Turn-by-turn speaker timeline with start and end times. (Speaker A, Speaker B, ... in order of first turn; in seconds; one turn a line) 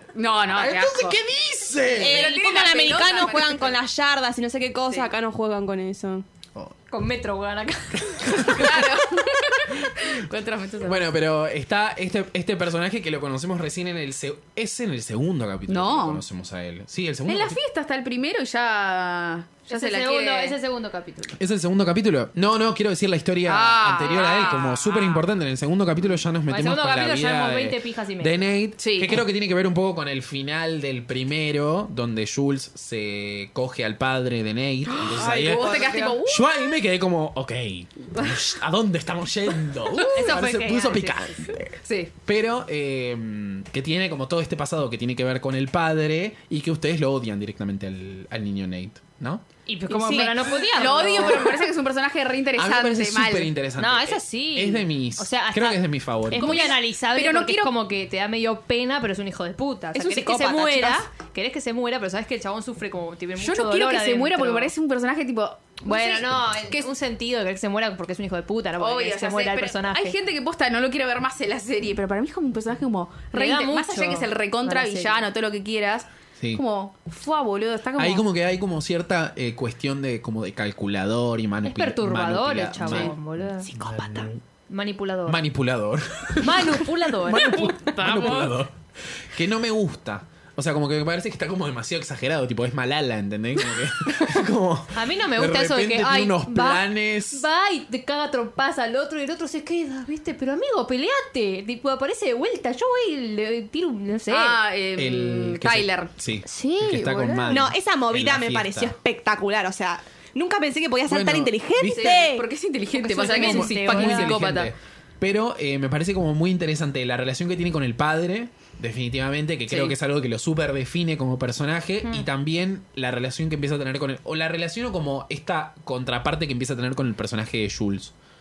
Speaker A: 0.1-1.2
Speaker B: 0.5-2.3
Speaker C: 1.9-6.2
Speaker A: 2.0-3.8
Speaker D: 6.9-8.8
Speaker B: 8.2-8.7
Speaker A: 8.4-11.1
Speaker B: 10.8-17.6
Speaker A: 15.7-16.2
Speaker A: 17.3-20.6
Speaker D: 19.7-21.4
Speaker B: 21.4-49.4
Speaker A: 23.4-25.2
Speaker D: 26.5-28.4
Speaker A: 28.8-29.2
Speaker A: 34.9-36.7
Speaker C: 35.2-36.1
Speaker D: 40.1-41.3
Speaker A: 41.8-42.1
Speaker D: 49.6-51.6
Speaker C: 49.9-50.3
Speaker A: 50.0-53.5
Speaker B: 52.5-56.8
Speaker D: 53.8-64.7
Speaker A: 56.4-57.7
Speaker C: 59.9-61.0
Speaker A: 63.4-66.4
Speaker D: 65.8-70.2
Speaker A: 68.8-78.2
Speaker D: 73.3-75.2
Speaker B: 78.0-84.4
Speaker D: 81.6-83.7
Speaker C: 83.6-84.3
Speaker D: 84.7-85.4
Speaker B: 85.3-88.7
Speaker D: 86.4-88.5
Speaker B: 89.3-97.5
Speaker D: 94.9-104.6
Speaker A: 104.3-106.1
Speaker B: 105.0-108.9
Speaker D: 106.7-107.4
Speaker C: 106.8-112.5
Speaker B: 111.1-112.2
Speaker A: 111.9-114.7
Speaker D: 112.9-114.4
Speaker B: 113.2-128.1
Speaker A: 119.7-120.0